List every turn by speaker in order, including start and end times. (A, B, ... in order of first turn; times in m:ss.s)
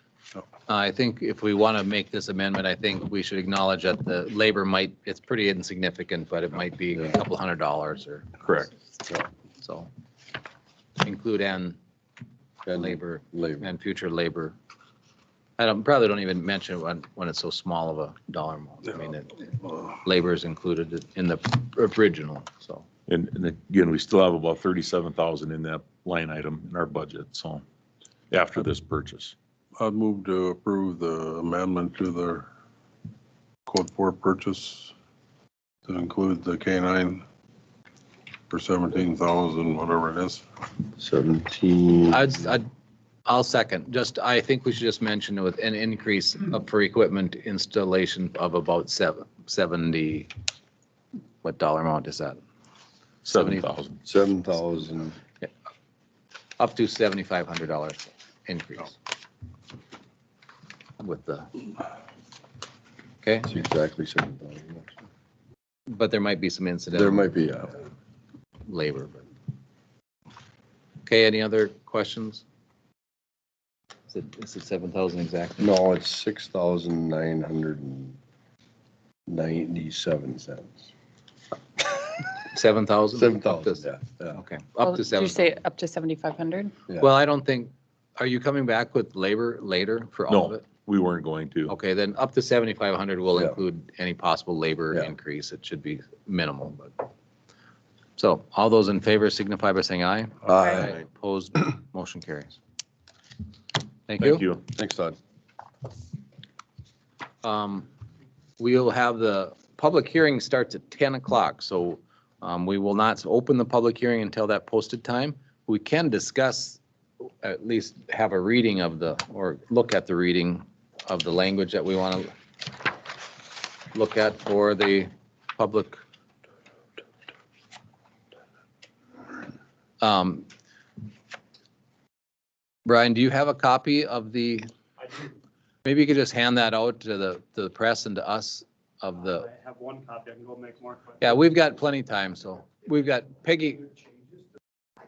0:00.7-0:08.4 A
0:08.4-0:08.7 B
0:09.6-0:09.9 A
0:11.0-0:11.8 A
0:12.6-0:13.7 C
0:12.8-0:14.6 A
0:15.6-0:19.4 A
0:19.7-0:20.0 D
0:20.0-0:22.8 A
0:23.1-0:27.6 B
0:28.3-0:29.3 B
0:29.8-0:32.5 D
0:33.6-0:34.9 D
0:35.8-0:37.2 D
0:38.5-0:40.4 D
0:40.9-0:42.3 C
0:42.1-0:42.7 A
0:43.2-0:50.3 A
0:51.4-0:52.4 A
0:53.2-0:54.0 B
0:53.4-0:53.6 A
0:54.0-0:55.2 C
0:56.6-0:59.0 A
1:01.0-1:01.6 A
1:03.2-1:03.5 A
1:03.4-1:04.9 C
1:05.9-1:07.4 A
1:06.9-1:07.8 C
1:08.6-1:09.3 A
1:11.0-1:12.4 A
1:14.1-1:15.7 A
1:15.6-1:18.2 C
1:19.3-1:20.9 C
1:22.4-1:25.4 A
1:23.1-1:24.4 C
1:24.8-1:26.7 E
1:27.0-1:30.6 A
1:30.3-1:31.7 B
1:31.7-1:37.1 A
1:38.2-1:42.6 A
1:40.4-1:40.9 C
1:40.5-1:40.8 E
1:44.1-1:44.4 A
1:44.2-1:44.6 B
1:44.7-1:45.2 C
1:47.4-1:47.9 A
1:48.6-2:03.0 A
2:03.8-2:06.0 A
2:10.0-2:10.5 A
2:12.8-2:14.7 A
2:15.0-2:15.3 F
2:15.8-2:19.5 A
2:19.4-2:21.4 F
2:21.2-2:23.9 A